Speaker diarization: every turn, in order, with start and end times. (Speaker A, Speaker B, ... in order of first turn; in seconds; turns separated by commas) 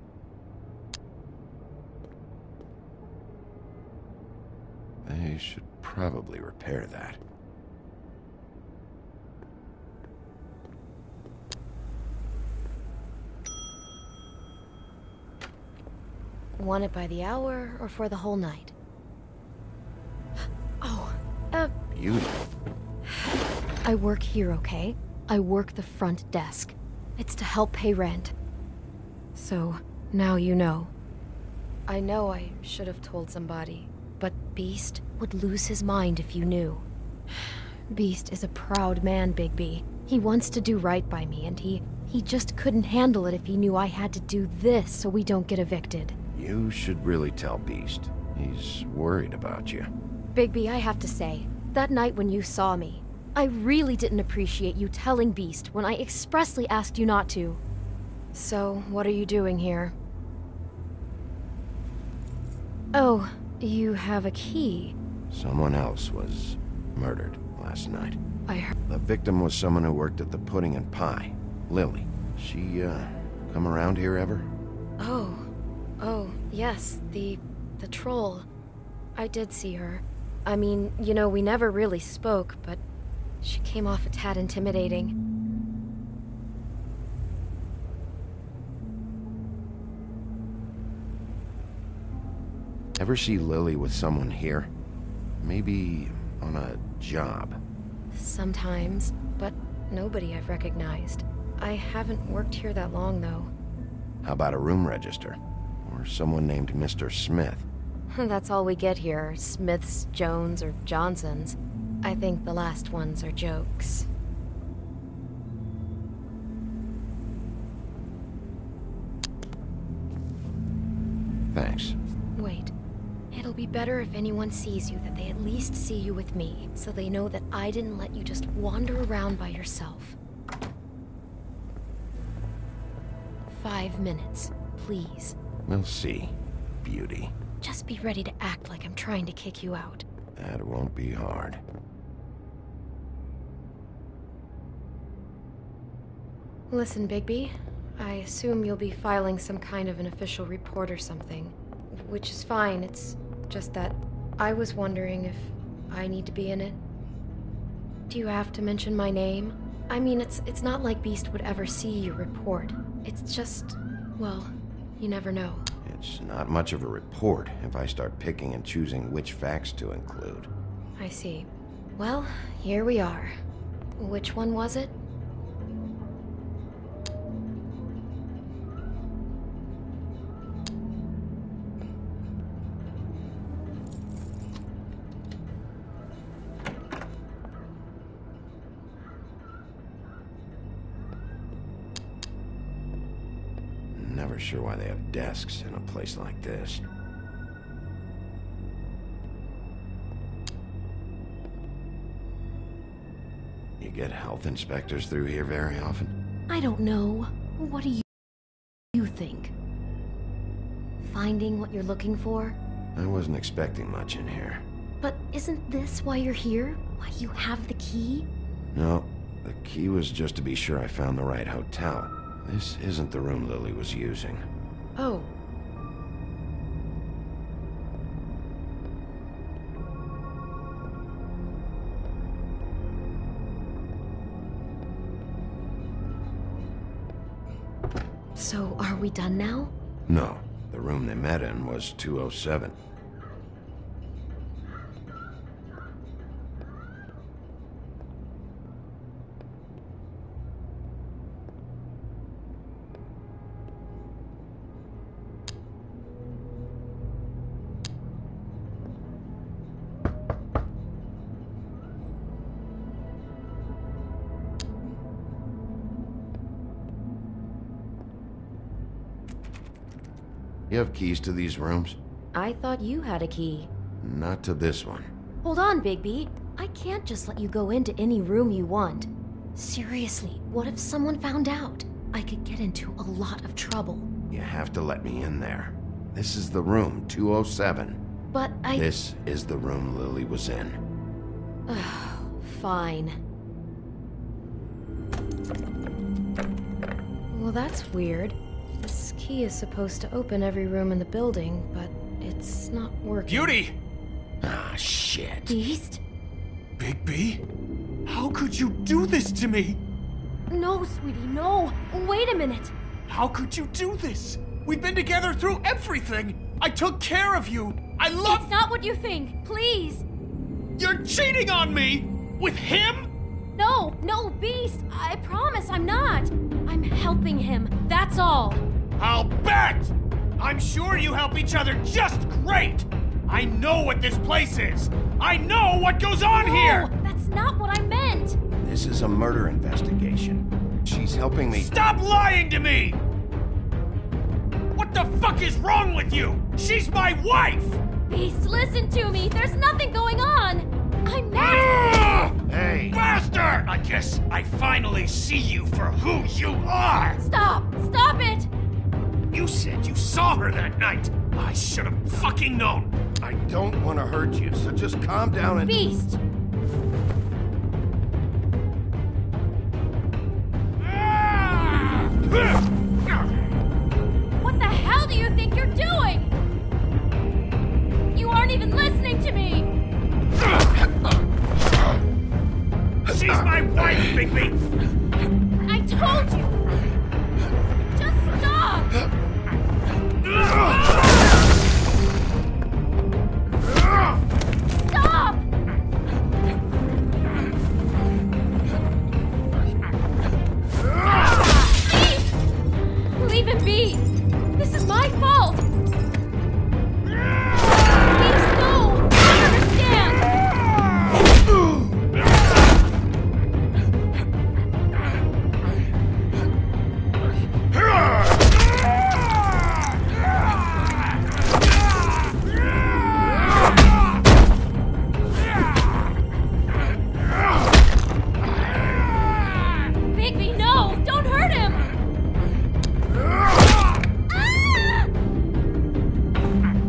Speaker A: 5.0-7.2, Speaker B: 16.6-18.7, Speaker B: 20.8-21.7, Speaker A: 21.9-22.4, Speaker B: 23.1-23.3, Speaker B: 23.9-28.3, Speaker B: 29.4-30.9, Speaker B: 31.9-46.2, Speaker A: 46.3-49.9, Speaker B: 50.4-57.6, Speaker B: 58.3-60.0, Speaker B: 62.9-65.0, Speaker A: 65.3-68.2, Speaker B: 68.5-68.7, Speaker A: 68.9-74.5, Speaker B: 75.0-78.5, Speaker B: 79.2-82.8, Speaker B: 83.4-85.2, Speaker A: 93.0-94.7, Speaker A: 95.4-97.6, Speaker B: 98.1-103.5, Speaker A: 104.2-107.7, Speaker B: 108.1-114.1, Speaker A: 121.5-122.0, Speaker B: 122.4-122.7, Speaker B: 123.3-130.2, Speaker B: 133.5-135.4, Speaker A: 135.7-137.3, Speaker B: 137.6-140.1, Speaker A: 140.4-141.6, Speaker B: 146.7-156.8, Speaker B: 158.1-165.7, Speaker A: 165.8-170.5, Speaker B: 171.0-173.4, Speaker B: 174.0-175.0, Speaker A: 193.9-196.8, Speaker A: 203.8-206.2, Speaker B: 206.5-208.1, Speaker B: 208.9-209.5, Speaker B: 211.0-212.6, Speaker A: 212.9-214.7, Speaker B: 215.0-218.3, Speaker A: 218.7-224.4, Speaker B: 225.0-225.3, Speaker B: 238.3-239.7, Speaker A: 240.1-242.8, Speaker A: 270.7-272.0, Speaker B: 272.3-273.7, Speaker A: 274.0-275.1, Speaker B: 275.4-284.1, Speaker A: 284.3-288.0, Speaker B: 288.3-288.9, Speaker A: 288.7-290.8, Speaker B: 291.7-293.2, Speaker B: 297.3-303.6, Speaker C: 303.3-303.8, Speaker A: 304.4-305.6, Speaker B: 305.5-306.0, Speaker C: 306.8-307.4, Speaker C: 308.1-309.8, Speaker B: 310.5-312.7, Speaker C: 313.1-318.4, Speaker B: 318.2-320.1, Speaker C: 320.8-323.1, Speaker B: 323.6-328.6, Speaker C: 329.0-336.9, Speaker B: 336.3-338.4, Speaker A: 338.6-341.8, Speaker C: 341.5-343.0, Speaker C: 344.7-347.8, Speaker B: 348.1-352.2, Speaker C: 351.4-357.2, Speaker A: 352.4-353.0, Speaker B: 357.2-358.5, Speaker C: 359.3-363.0, Speaker A: 363.2-365.8, Speaker B: 365.6-366.2, Speaker C: 371.3-371.6, Speaker B: 374.4-376.3, Speaker B: 378.1-379.7, Speaker C: 383.1-384.6, Speaker B: 385.6-386.6, Speaker B: 388.0-388.9, Speaker B: 394.7-395.4, Speaker B: 401.4-402.3, Speaker B: 403.2-405.6, Speaker B: 407.8-410.3, Speaker B: 430.1-431.9